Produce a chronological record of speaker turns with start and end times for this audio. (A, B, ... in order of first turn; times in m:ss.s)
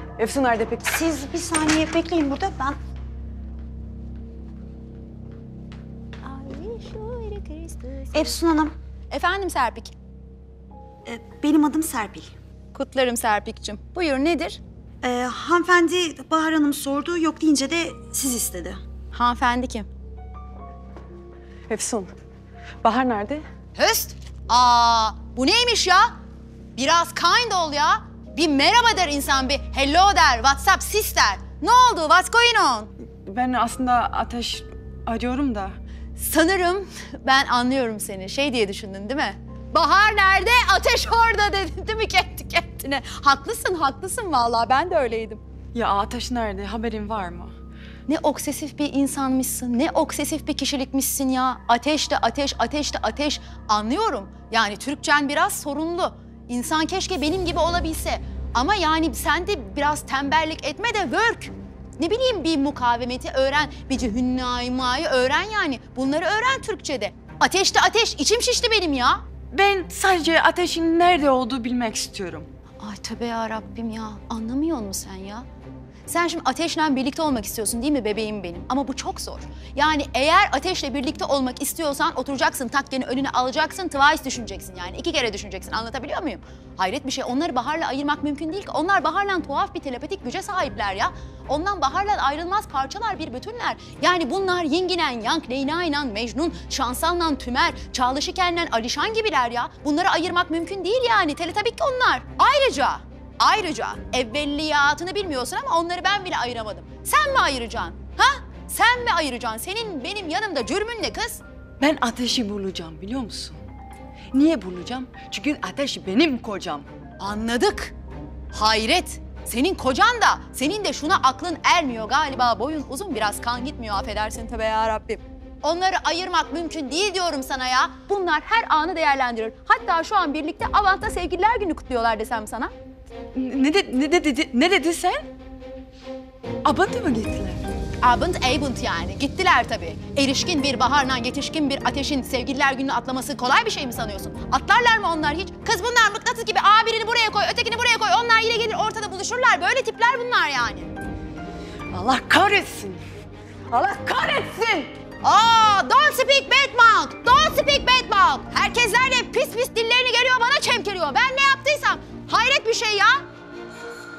0:00.2-0:02.5 A
0:01.1-0:02.8 B
0:06.2-0:08.4 C
0:08.2-0:08.7 B
0:09.1-0:09.9 C
0:11.1-0:12.3 A
0:11.2-0:11.9 B
0:12.7-0:14.6 C
0:15.0-0:18.5 B
0:16.9-0:18.7 A
0:19.1-0:19.9 C
0:21.7-0:22.1 A
0:22.8-0:23.4 A
0:23.7-0:26.1 C
0:26.7-0:32.9 C
0:33.3-0:35.8 A
0:36.2-0:45.4 C
0:45.7-0:47.5 A
0:48.1-1:09.2 C
1:09.5-1:12.5 A
1:12.8-1:15.5 C
1:16.1-1:51.4 C
1:51.8-1:53.6 A
1:54.3-1:56.9 A
1:57.2-1:57.9 C
1:58.5-2:12.7 C
2:13.3-2:15.3 A
2:16.6-2:17.7 A
2:18.0-2:30.9 C
2:31.9-2:33.0 A
2:33.7-2:34.9 A
2:35.2-2:43.2 C